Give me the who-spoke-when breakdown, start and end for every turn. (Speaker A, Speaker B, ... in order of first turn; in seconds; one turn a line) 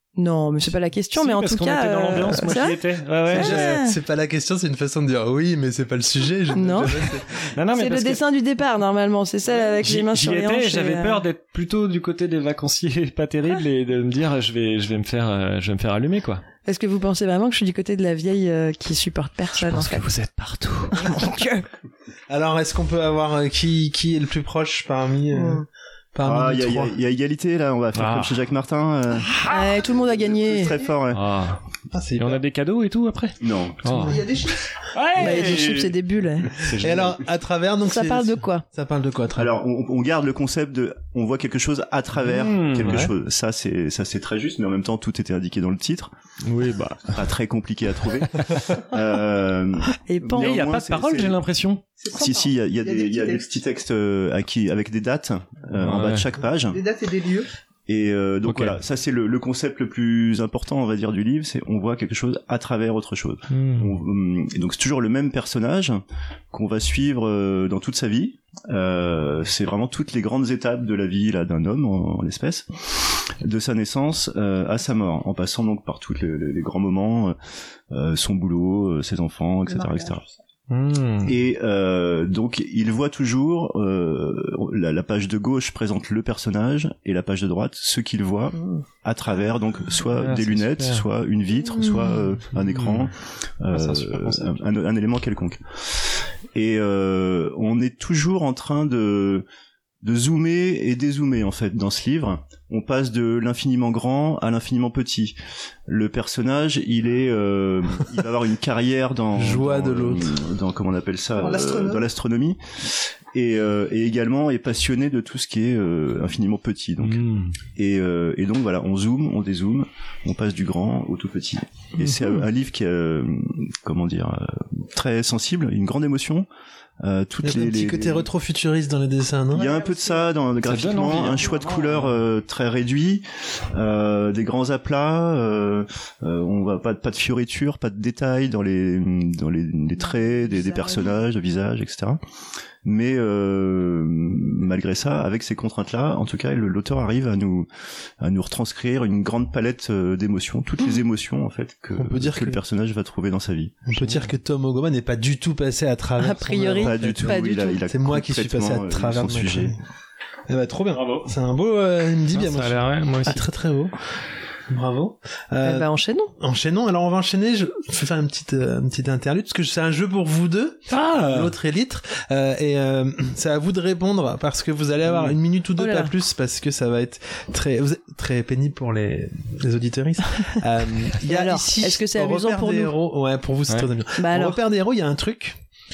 Speaker A: 0.2-2.8
Speaker B: 1.1-3.8
Speaker C: 3.3-7.5
Speaker A: 3.3-3.9
Speaker A: 6.5-7.1
Speaker B: 7.5-8.2
Speaker A: 7.7-11.2
Speaker B: 9.8-16.4
Speaker A: 16.7-20.1
Speaker B: 19.6-21.1
Speaker A: 20.9-21.7
Speaker C: 22.3-26.9
Speaker D: 26.2-29.3
Speaker B: 27.9-28.4
Speaker B: 29.3-29.6
Speaker A: 29.5-30.8
Speaker D: 30.0-31.2
Speaker B: 31.1-31.6
Speaker C: 31.9-32.4
Speaker B: 32.2-36.0
Speaker D: 33.4-34.0
Speaker E: 34.0-34.6
Speaker A: 35.2-36.6
Speaker B: 36.5-37.2
Speaker C: 36.8-39.5
Speaker A: 37.9-38.6
Speaker D: 39.4-46.1
Speaker B: 42.3-43.1
Speaker B: 46.5-47.2
Speaker D: 47.1-51.4
Speaker A: 50.1-50.6
Speaker B: 50.4-51.8
Speaker E: 52.0-53.4
Speaker D: 52.1-56.8
Speaker B: 55.8-56.3
Speaker E: 56.7-57.5
Speaker D: 57.9-77.3
Speaker B: 58.5-58.8
Speaker B: 63.5-63.9
Speaker D: 77.9-80.2
Speaker E: 79.7-80.3
Speaker B: 80.7-81.3
Speaker D: 81.2-95.6
Speaker B: 90.1-91.0
Speaker B: 92.6-93.1
Speaker B: 93.7-94.6
Speaker D: 96.5-99.5
Speaker D: 100.0-105.4
Speaker D: 105.9-117.2
Speaker C: 109.4-110.3
Speaker E: 111.4-112.0
Speaker B: 117.0-117.5
Speaker D: 117.8-126.5
Speaker D: 127.0-128.3
Speaker C: 127.4-129.7
Speaker D: 129.5-142.2
Speaker E: 129.6-130.3
Speaker B: 130.6-132.1
Speaker D: 142.8-147.7
Speaker D: 148.2-153.8
Speaker C: 152.0-152.6
Speaker C: 153.9-159.8
Speaker B: 154.0-154.3
Speaker A: 156.2-157.8
Speaker D: 156.8-159.8
Speaker C: 160.5-163.9
Speaker B: 160.9-161.3
Speaker B: 162.3-163.4
Speaker C: 164.7-165.9
Speaker A: 165.6-166.3
Speaker C: 166.4-185.6
Speaker B: 170.9-171.5
Speaker B: 175.1-175.4
Speaker A: 175.8-176.1
Speaker A: 181.2-182.9
Speaker A: 184.2-184.6